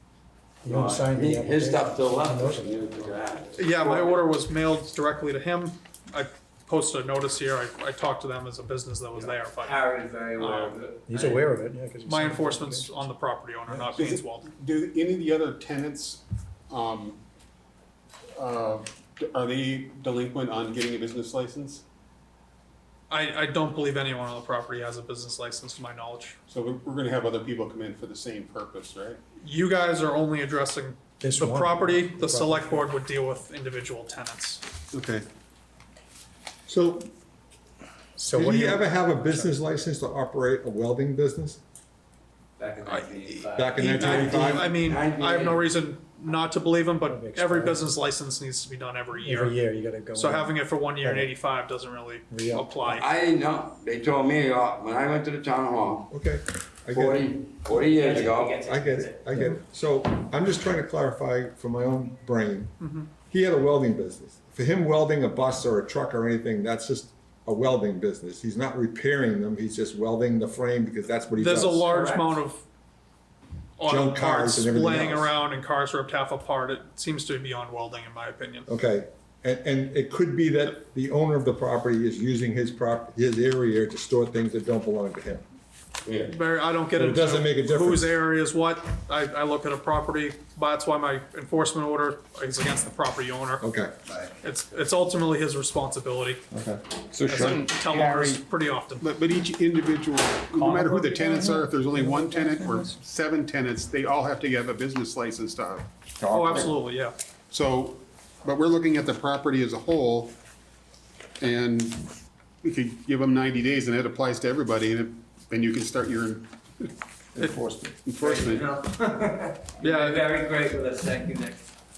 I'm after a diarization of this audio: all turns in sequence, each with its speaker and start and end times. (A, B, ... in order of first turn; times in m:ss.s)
0:00.6-0:03.2 A
0:00.7-0:04.2 B
0:03.6-0:11.4 C
0:09.2-0:11.4 D
0:11.1-0:13.0 A
0:12.1-0:14.5 C
0:14.0-0:17.2 E
0:18.4-0:21.8 E
0:23.1-0:26.4 C
0:26.5-0:29.2 E
0:29.4-0:34.6 C
0:31.2-0:32.8 A
0:34.9-0:35.2 F
0:36.7-0:37.1 F
0:38.2-0:39.6 A
0:38.2-0:41.6 F
0:42.6-0:44.0 D
0:42.9-0:49.6 C
0:43.6-0:44.8 F
0:44.0-0:45.6 B
0:47.0-0:47.9 A
0:49.1-0:51.3 A
0:50.2-0:53.1 C
0:52.3-0:52.8 A
0:52.8-0:56.1 B
0:56.1-0:57.4 F
0:56.9-0:58.6 B
0:57.8-0:59.2 D
0:58.6-1:11.9 F
1:02.8-1:03.1 C
1:11.4-1:12.6 C
1:11.9-1:12.4 D
1:13.8-1:18.7 C
1:13.9-1:15.3 F
1:18.7-1:25.4 F
1:26.0-1:26.3 B
1:26.3-1:33.7 C
1:27.0-1:28.1 F
1:33.6-1:33.9 F
1:34.4-1:36.4 C
1:36.5-1:36.8 F
1:37.1-1:38.4 G
1:37.2-1:39.1 C
1:39.0-1:45.9 E
1:40.6-1:43.0 G
1:46.2-1:46.8 F
1:46.3-1:47.1 C
1:47.5-1:50.4 E
1:51.4-1:57.0 E
1:57.4-1:58.0 F
1:58.0-1:58.7 E
1:58.2-2:01.7 D
1:59.8-2:00.3 C